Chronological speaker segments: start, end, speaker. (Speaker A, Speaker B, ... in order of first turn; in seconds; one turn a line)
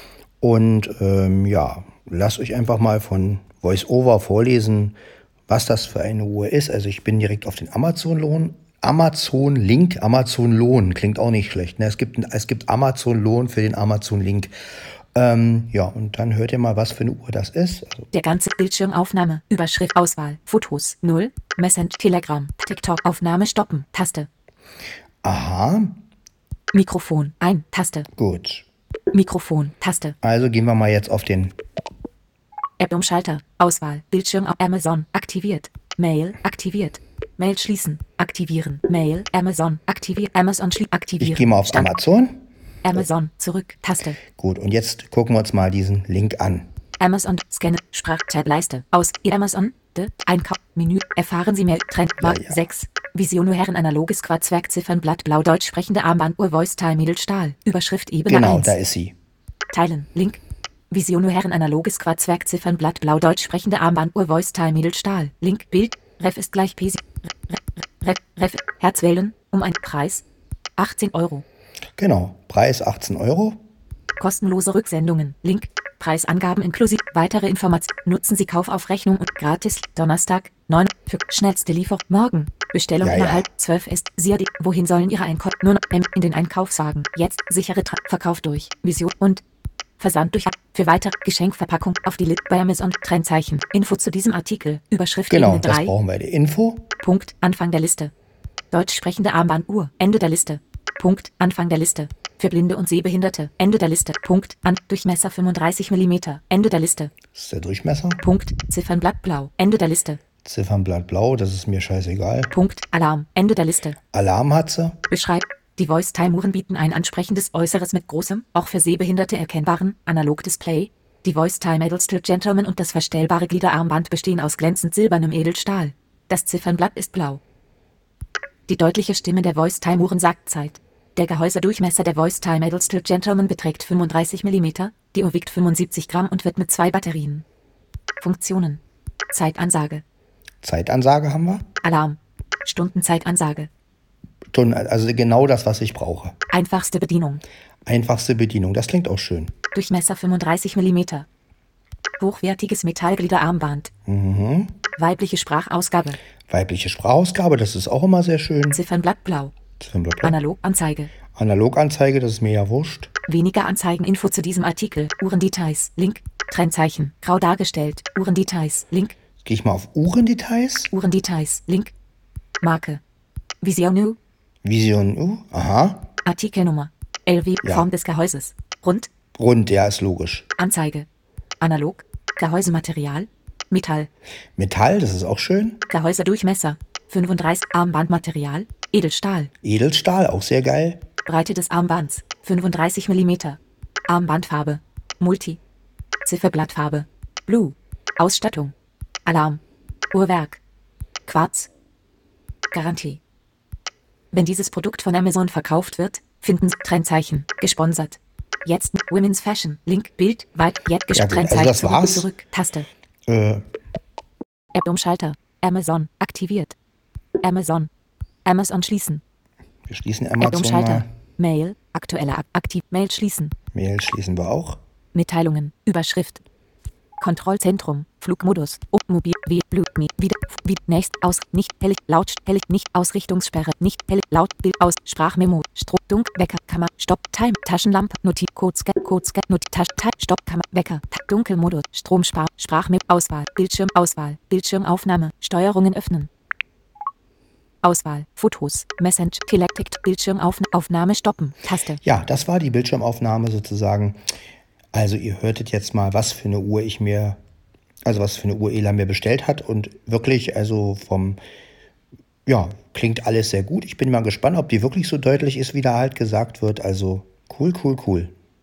Speaker A: 0.4-5.0
Speaker A: 5.5-14.5
Speaker A: 15.1-18.1
Speaker B: 18.1-24.3
Speaker A: 25.2-26.0
Speaker B: 26.7-28.1
Speaker A: 28.1-28.6
Speaker B: 29.1-30.1
Speaker A: 30.2-31.5
Speaker B: 32.8-41.9
Speaker A: 41.2-42.4
Speaker B: 42.8-44.2
Speaker A: 44.4-46.7
Speaker B: 47.0-58.7
Speaker A: 52.2-52.6
Speaker A: 58.3-59.1
Speaker B: 59.7-70.2
Speaker B: 70.8-71.4
Speaker A: 72.0-73.6
Speaker B: 74.2-89.4
Speaker A: 83.0-83.4
Speaker B: 90.0-95.9
Speaker A: 95.3-96.9
Speaker B: 97.0-98.1
Speaker B: 98.7-107.1
Speaker A: 107.3-108.2
Speaker B: 108.2-110.2
Speaker A: 110.4-112.5
Speaker B: 112.5-114.0
Speaker A: 114.1-115.0
Speaker B: 115.1-127.4
Speaker B: 128.7-137.4
Speaker B: 138.2-140.0
Speaker A: 140.6-141.6
Speaker B: 141.8-143.7
Speaker A: 144.5-146.3
Speaker B: 146.5-147.4
Speaker A: 147.8-149.5
Speaker B: 149.7-151.3
Speaker B: 152.2-153.9
Speaker A: 154.1-154.8
Speaker B: 155.0-156.2
Speaker A: 156.5-158.8
Speaker B: 158.7-159.5
Speaker A: 159.8-160.4
Speaker B: 160.2-161.1
Speaker A: 161.3-163.1
Speaker B: 163.3-169.2
Speaker A: 169.4-170.9
Speaker B: 170.9-171.9
Speaker B: 172.6-173.0
Speaker B: 173.6-174.2
Speaker A: 174.6-176.1
Speaker B: 176.2-179.1
Speaker A: 179.3-180.5
Speaker B: 180.6-181.1
Speaker B: 181.6-184.1
Speaker A: 184.6-185.8
Speaker B: 185.9-189.5
Speaker A: 189.6-191.0
Speaker B: 191.2-195.6
Speaker B: 196.2-198.7
Speaker B: 199.2-199.6
Speaker B: 200.1-200.6
Speaker B: 201.3-201.7
Speaker B: 202.7-203.2
Speaker B: 204.3-212.9
Speaker A: 211.1-212.3
Speaker A: 213.3-213.6
Speaker B: 214.7-216.7
Speaker B: 217.4-217.9
Speaker B: 218.4-219.2
Speaker A: 219.9-221.1
Speaker B: 220.4-223.5
Speaker A: 223.7-224.8
Speaker B: 225.1-226.4
Speaker B: 227.2-246.3
Speaker B: 247.8-252.0
Speaker A: 252.0-254.2
Speaker A: 254.9-257.4
Speaker A: 258.1-261.4
Speaker A: 262.4-268.3